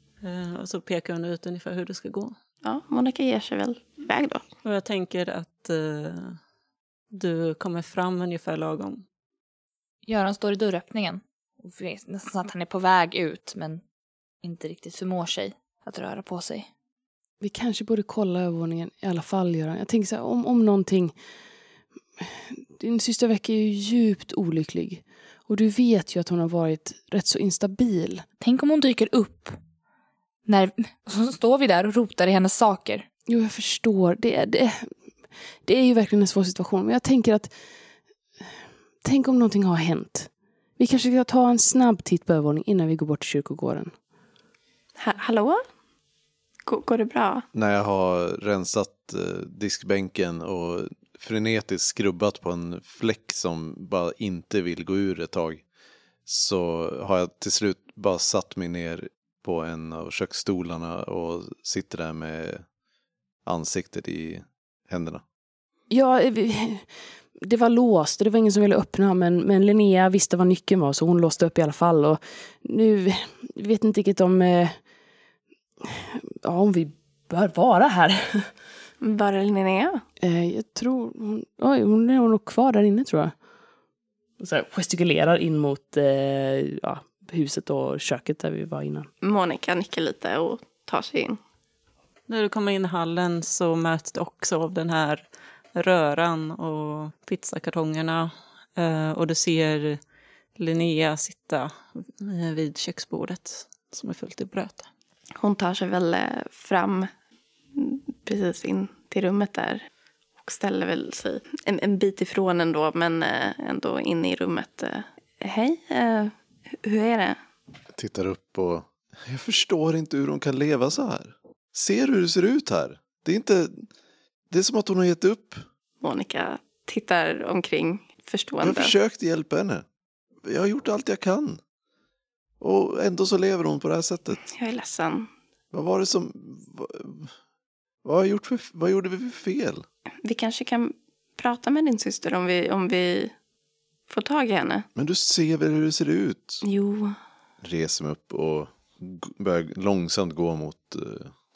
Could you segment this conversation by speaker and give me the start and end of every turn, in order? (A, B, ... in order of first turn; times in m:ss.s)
0:00.2-0:02.4 A
0:02.6-0:04.4 B
0:04.6-0:06.4 A
0:07.1-0:09.0 A
0:10.1-0:13.8 C
0:14.4-0:16.7 C
0:17.4-0:21.2 D
0:22.2-0:28.2 D
0:28.4-0:29.6 C
0:30.5-0:33.1 C
0:33.3-0:37.6 D
0:39.0-0:43.9 D
0:45.0-0:45.6 B
0:46.7-0:47.4 B
0:47.5-0:55.6 E
0:56.3-1:02.7 E
1:03.4-1:05.2 E
1:05.9-1:14.8 D
1:15.8-1:18.6 D
1:19.0-1:20.0 B
1:20.2-1:23.4 D
1:24.4-1:29.1 D
1:29.2-1:31.4 B
1:32.3-1:40.0 A
1:40.6-1:44.9 A
1:45.4-1:47.1 B
1:47.8-1:49.8 B
1:50.4-1:57.4 B
1:58.0-2:03.9 E
2:04.5-2:05.6 E
2:06.0-2:08.9 B
2:08.6-2:09.8 E
2:10.4-2:11.6 E
2:12.6-2:14.4 E
2:14.4-2:15.3 B
2:15.7-2:17.4 E
2:18.0-2:19.8 E
2:20.2-2:23.3 B
2:24.1-2:24.8 B
2:25.0-2:26.6 E
2:26.6-2:27.2 B
2:27.6-2:31.3 E